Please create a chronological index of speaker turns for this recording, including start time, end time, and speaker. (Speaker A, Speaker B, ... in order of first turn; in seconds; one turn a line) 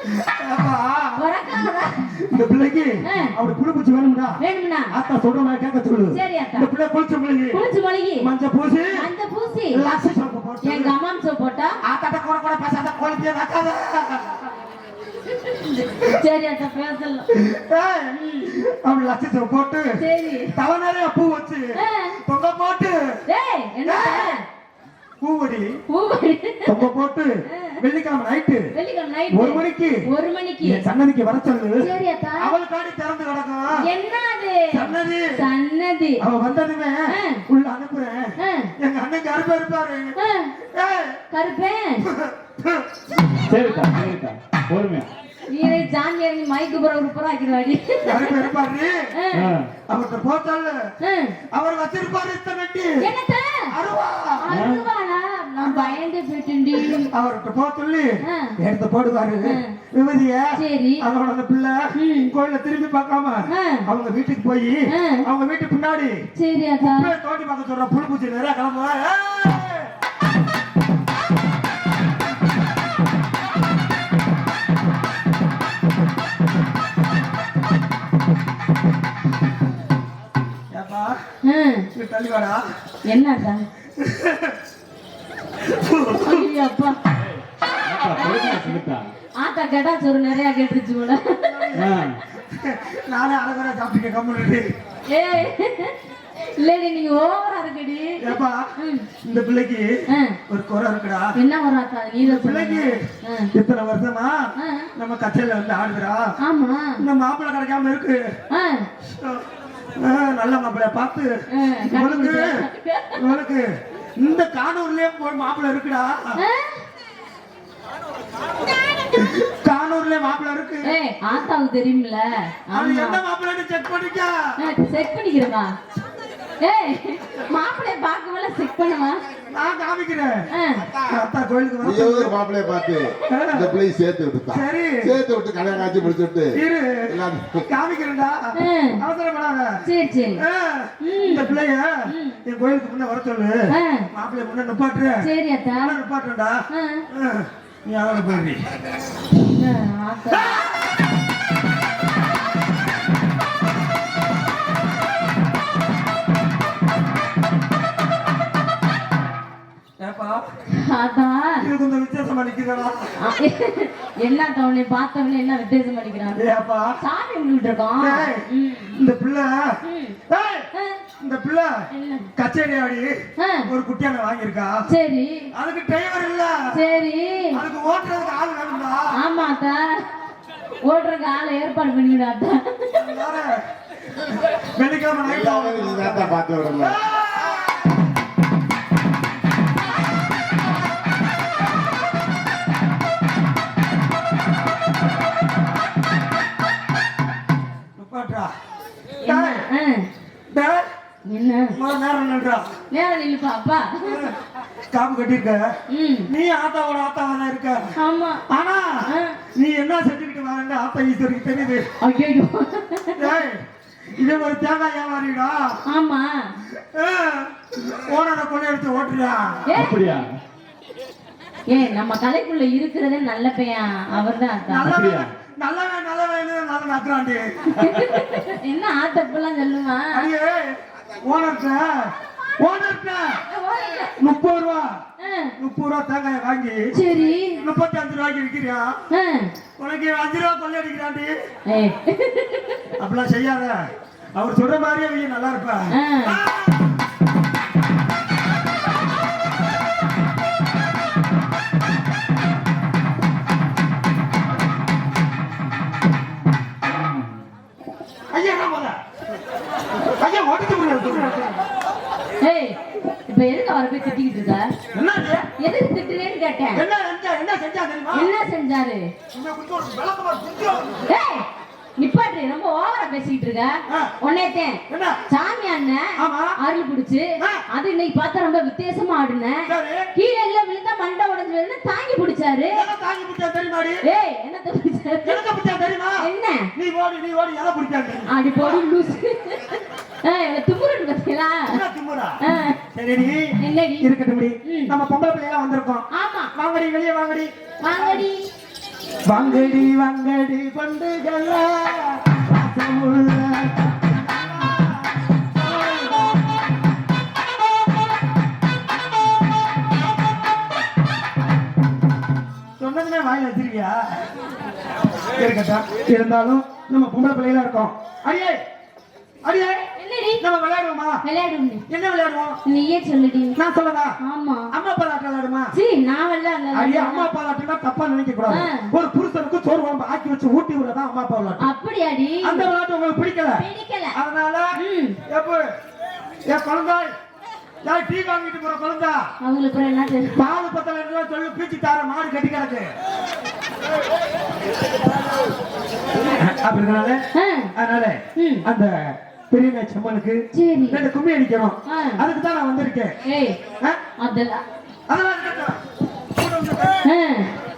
Speaker A: 0.1-1.2
Speaker B: 1.2-2.1
Speaker A: 2.2-4.4
Speaker B: 3.0-3.3
Speaker B: 4.4-4.9
Speaker A: 4.9-7.6
Speaker B: 6.1-6.7
Speaker B: 7.5-8.3
Speaker A: 8.2-9.0
Speaker B: 8.9-9.8
Speaker A: 9.7-10.9
Speaker B: 10.6-11.8
Speaker A: 11.8-14.5
Speaker B: 15.3-17.3
Speaker A: 17.3-20.0
Speaker B: 18.1-18.5
Speaker B: 20.0-20.5
Speaker A: 20.5-21.7
Speaker B: 21.8-22.2
Speaker A: 22.2-23.1
Speaker B: 23.3-24.4
Speaker A: 23.8-24.4
Speaker A: 25.2-25.8
Speaker B: 25.9-26.8
Speaker A: 26.6-28.7
Speaker B: 27.5-27.8
Speaker B: 28.8-30.8
Speaker A: 29.3-30.0
Speaker A: 30.6-33.8
Speaker B: 31.8-32.5
Speaker B: 33.8-36.2
Speaker A: 34.7-35.4
Speaker A: 36.2-40.1
Speaker B: 37.1-37.4
Speaker B: 38.4-38.7
Speaker B: 40.2-40.5
Speaker A: 40.6-41.1
Speaker B: 41.3-42.1
Speaker A: 42.1-42.8
Speaker C: 43.4-45.1
Speaker B: 43.5-44.0
Speaker B: 45.5-48.5
Speaker A: 48.0-49.1
Speaker B: 49.1-49.5
Speaker C: 49.3-49.7
Speaker A: 49.9-50.8
Speaker B: 51.0-51.4
Speaker A: 51.5-53.0
Speaker B: 53.0-53.7
Speaker A: 53.7-54.6
Speaker B: 54.4-57.1
Speaker C: 54.5-54.8
Speaker A: 55.6-56.0
Speaker A: 56.8-66.2
Speaker B: 58.3-58.5
Speaker B: 59.4-59.8
Speaker B: 60.5-61.0
Speaker B: 62.0-62.3
Speaker B: 63.5-63.9
Speaker B: 64.9-65.2
Speaker B: 66.3-67.1
Speaker A: 66.8-69.9
Speaker A: 80.7-81.2
Speaker B: 81.4-81.9
Speaker A: 81.9-82.6
Speaker B: 83.0-83.6
Speaker A: 84.0-84.6
Speaker A: 85.6-86.5
Speaker B: 86.1-87.0
Speaker C: 87.8-89.1
Speaker B: 88.1-88.8
Speaker B: 89.4-91.9
Speaker A: 91.4-94.7
Speaker C: 91.8-92.2
Speaker B: 95.1-95.9
Speaker B: 96.5-99.1
Speaker A: 98.2-98.7
Speaker A: 99.2-99.9
Speaker B: 100.1-100.4
Speaker A: 100.5-101.3
Speaker B: 101.3-103.5
Speaker A: 102.2-103.0
Speaker A: 103.5-104.4
Speaker B: 104.6-104.9
Speaker A: 105.0-106.3
Speaker B: 106.4-107.0
Speaker A: 107.0-108.2
Speaker B: 108.5-108.9
Speaker A: 109.1-109.4
Speaker A: 110.0-111.3
Speaker B: 111.5-113.2
Speaker A: 111.8-112.5
Speaker A: 113.2-113.7
Speaker A: 114.2-116.4
Speaker B: 116.4-116.8
Speaker A: 119.2-121.0
Speaker B: 120.8-123.2
Speaker A: 122.7-124.5
Speaker B: 124.6-125.8
Speaker B: 126.6-129.2
Speaker A: 129.5-130.4
Speaker B: 130.5-130.9
Speaker A: 131.1-132.3
Speaker D: 131.8-136.6
Speaker A: 133.3-133.8
Speaker A: 134.5-135.1
Speaker A: 136.5-139.8
Speaker D: 137.1-137.7
Speaker B: 138.6-139.0
Speaker B: 139.8-140.4
Speaker A: 140.4-145.2
Speaker B: 141.0-141.6
Speaker B: 142.1-142.4
Speaker B: 143.7-144.1
Speaker B: 145.2-146.0
Speaker A: 145.8-146.6
Speaker B: 146.7-147.0
Speaker A: 147.1-148.6
Speaker B: 149.4-150.6
Speaker A: 150.3-151.0
Speaker A: 160.0-160.4
Speaker B: 160.7-161.7
Speaker A: 161.6-163.1
Speaker B: 163.2-166.4
Speaker A: 166.4-166.9
Speaker B: 167.0-168.9
Speaker A: 168.0-169.8
Speaker B: 169.8-170.2
Speaker A: 170.3-171.8
Speaker B: 170.7-171.0
Speaker B: 171.9-172.3
Speaker A: 172.4-173.1
Speaker B: 173.4-173.7
Speaker A: 173.7-174.8
Speaker B: 174.9-175.5
Speaker A: 175.5-176.6
Speaker B: 176.7-177.6
Speaker A: 177.5-179.1
Speaker B: 179.2-180.1
Speaker B: 180.8-183.1
Speaker A: 182.9-183.6
Speaker A: 184.6-187.8
Speaker D: 185.2-187.0
Speaker A: 197.9-198.5
Speaker B: 199.2-200.1
Speaker A: 199.2-199.6
Speaker A: 200.5-200.9
Speaker B: 201.2-201.8
Speaker A: 201.7-202.7
Speaker B: 202.9-204.3
Speaker A: 204.1-204.3
Speaker A: 204.9-205.6
Speaker B: 205.9-206.3
Speaker A: 206.3-207.9
Speaker B: 207.9-208.4
Speaker A: 208.5-211.9
Speaker B: 209.1-209.4
Speaker B: 212.0-213.4
Speaker A: 213.2-213.6
Speaker A: 214.2-215.8
Speaker B: 215.9-216.5
Speaker A: 216.8-219.7
Speaker B: 219.7-220.2
Speaker C: 219.7-220.3
Speaker B: 221.7-224.9
Speaker A: 224.7-227.8
Speaker C: 224.8-225.3
Speaker B: 227.7-230.3
Speaker C: 227.9-228.2
Speaker A: 230.1-233.4
Speaker B: 233.5-234.1
Speaker A: 234.2-235.0
Speaker B: 235.2-235.5
Speaker A: 235.6-236.8
Speaker B: 236.9-237.6
Speaker A: 237.6-238.9
Speaker B: 239.1-239.5
Speaker A: 239.8-241.3
Speaker B: 241.7-242.8
Speaker A: 243.0-243.8
Speaker A: 244.3-246.9
Speaker B: 245.9-246.4
Speaker A: 258.3-259.0
Speaker A: 260.1-261.6
Speaker B: 262.4-264.7
Speaker A: 264.9-265.4
Speaker B: 265.6-266.9
Speaker A: 266.8-268.3
Speaker B: 268.1-269.1
Speaker A: 269.3-270.9
Speaker B: 271.1-271.5
Speaker B: 272.0-282.9
Speaker A: 274.9-275.2
Speaker A: 276.2-276.5
Speaker A: 279.7-280.1
Speaker A: 282.7-284.0
Speaker B: 284.0-285.4
Speaker A: 285.2-288.9
Speaker B: 286.2-286.7
Speaker B: 288.3-291.8
Speaker A: 291.7-292.4
Speaker B: 292.4-292.8
Speaker A: 292.9-293.5
Speaker B: 293.6-294.1
Speaker A: 294.0-298.2
Speaker B: 294.6-294.9
Speaker B: 296.1-296.5
Speaker B: 297.8-298.4
Speaker A: 299.3-306.4
Speaker B: 299.3-299.9
Speaker A: 312.8-314.2
Speaker A: 315.4-318.6
Speaker A: 319.4-319.8
Speaker B: 320.0-320.4
Speaker A: 320.4-321.2
Speaker B: 321.2-321.9
Speaker A: 321.9-322.6
Speaker B: 322.6-323.6
Speaker A: 323.6-324.1
Speaker B: 324.2-324.7
Speaker A: 324.7-325.7
Speaker B: 325.7-327.3
Speaker A: 326.7-331.6
Speaker B: 328.5-328.9
Speaker B: 331.6-332.7
Speaker A: 332.4-333.6
Speaker B: 333.6-334.1
Speaker A: 334.1-334.8
Speaker B: 334.8-335.2
Speaker A: 335.3-335.7
Speaker A: 336.5-337.1
Speaker A: 337.8-339.3
Speaker B: 339.4-340.4
Speaker A: 340.4-342.9
Speaker A: 346.3-347.2
Speaker B: 347.3-347.7
Speaker A: 347.8-353.1
Speaker B: 348.4-348.6
Speaker B: 350.5-351.0
Speaker B: 351.9-352.2
Speaker B: 353.2-353.6
Speaker B: 354.2-354.6
Speaker A: 355.1-355.8
Speaker A: 356.4-357.0
Speaker B: 357.0-357.5